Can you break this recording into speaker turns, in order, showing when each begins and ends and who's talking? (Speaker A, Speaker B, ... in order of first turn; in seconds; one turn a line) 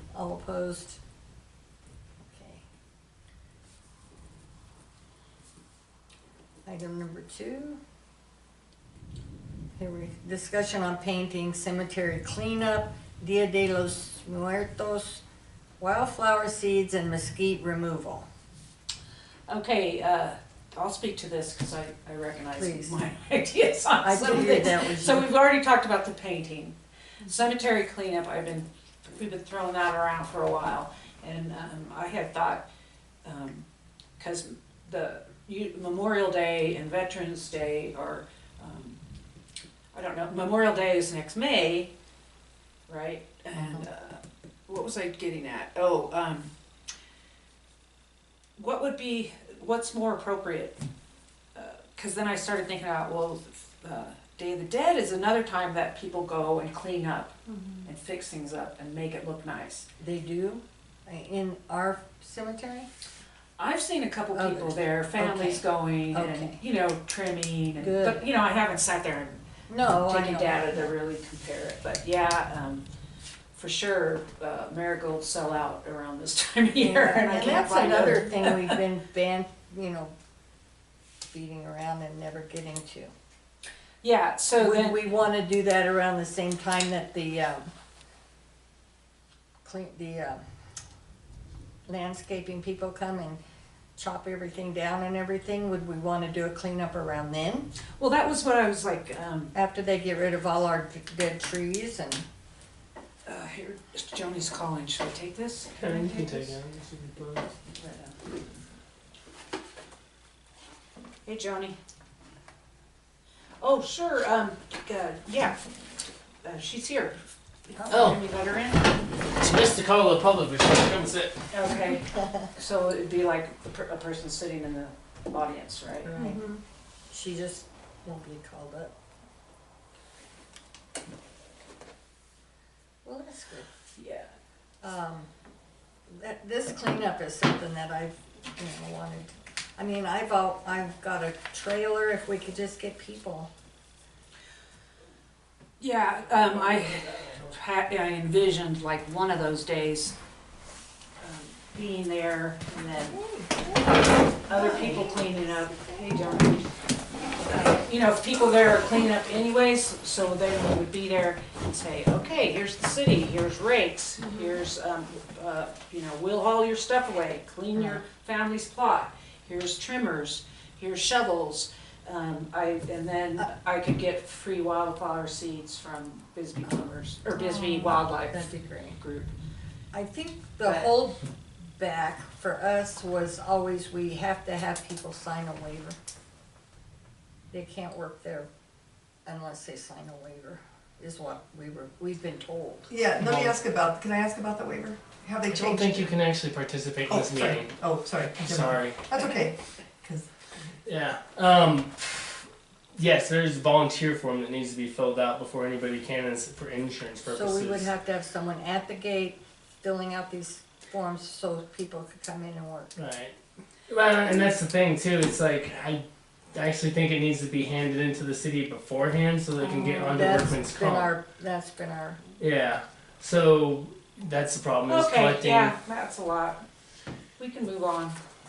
Speaker A: 0.1-1.0
Speaker A: 2.3-2.6
Speaker A: 6.7-7.8
Speaker A: 9.8-15.2
Speaker A: 15.8-18.3
Speaker B: 19.5-32.7
Speaker A: 22.6-23.0
Speaker A: 24.0-25.3
Speaker B: 33.2-33.6
Speaker B: 34.2-39.0
Speaker B: 39.9-41.9
Speaker B: 42.9-46.5
Speaker A: 43.5-43.9
Speaker B: 48.6-50.8
Speaker B: 51.5-59.9
Speaker A: 60.0-62.9
Speaker B: 63.6-69.4
Speaker A: 64.3-66.6
Speaker A: 67.8-68.2
Speaker A: 69.7-70.9
Speaker B: 69.9-72.9
Speaker B: 73.5-78.8
Speaker A: 76.8-80.1
Speaker A: 81.3-83.1
Speaker B: 84.0-85.1
Speaker A: 84.6-87.7
Speaker A: 89.6-90.4
Speaker A: 91.9-93.4
Speaker A: 94.0-97.7
Speaker B: 98.0-99.5
Speaker A: 99.5-102.2
Speaker B: 103.3-106.6
Speaker C: 105.8-107.5
Speaker B: 107.8-108.2
Speaker B: 111.2-111.8
Speaker B: 113.6-115.6
Speaker B: 116.4-119.0
Speaker C: 117.9-118.2
Speaker C: 119.4-121.5
Speaker B: 121.5-126.1
Speaker A: 126.1-128.9
Speaker A: 133.0-133.7
Speaker B: 134.0-134.3
Speaker A: 134.8-135.3
Speaker A: 136.1-143.5
Speaker B: 145.8-150.2
Speaker B: 151.2-153.2
Speaker A: 153.2-153.7
Speaker B: 154.4-156.7
Speaker A: 154.5-156.4
Speaker B: 157.5-179.3
Speaker A: 177.6-179.0
Speaker A: 179.9-181.2
Speaker A: 181.8-186.0
Speaker A: 187.5-188.5
Speaker A: 189.3-192.9
Speaker D: 192.9-196.1
Speaker C: 193.2-193.6
Speaker C: 195.5-199.1
Speaker D: 197.1-200.3
Speaker C: 200.8-207.9
Speaker A: 207.2-212.9
Speaker C: 213.0-213.3
Speaker C: 213.9-221.1
Speaker A: 219.9-222.2
Speaker C: 222.4-225.8
Speaker B: 224.9-226.6
Speaker B: 227.4-228.2